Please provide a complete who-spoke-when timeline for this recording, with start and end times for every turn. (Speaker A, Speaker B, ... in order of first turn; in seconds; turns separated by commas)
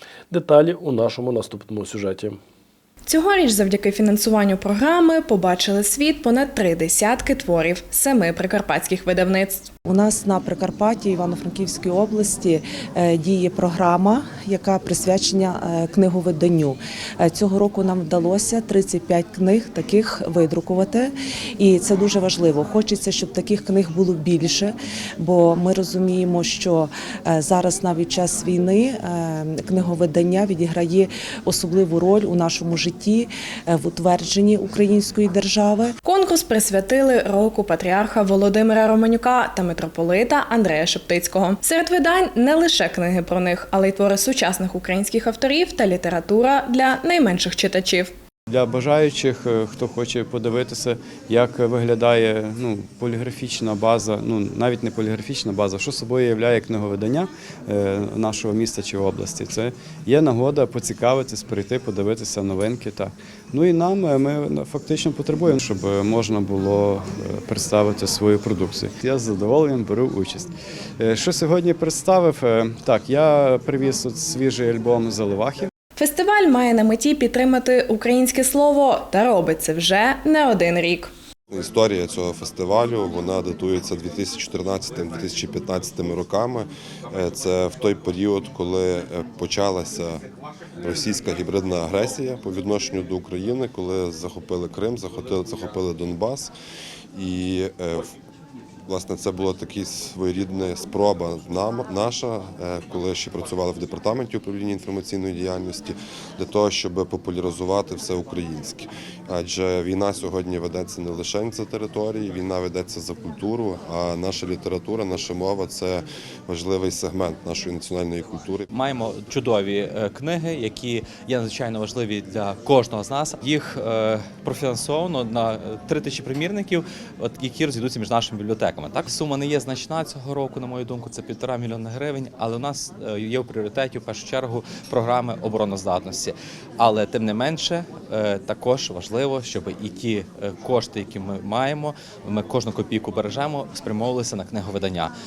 Speaker A: 0.3-2.4, Speaker B: 3.0-9.7, Speaker C: 9.9-35.9, Speaker B: 36.0-48.1, Speaker D: 48.5-70.5, Speaker D: 71.0-75.7, Speaker B: 76.0-81.1, Speaker E: 81.5-86.7, Speaker E: 87.2-90.2, Speaker E: 90.9-96.5, Speaker E: 97.2-98.0, Speaker E: 98.9-118.6, Speaker F: 118.7-145.1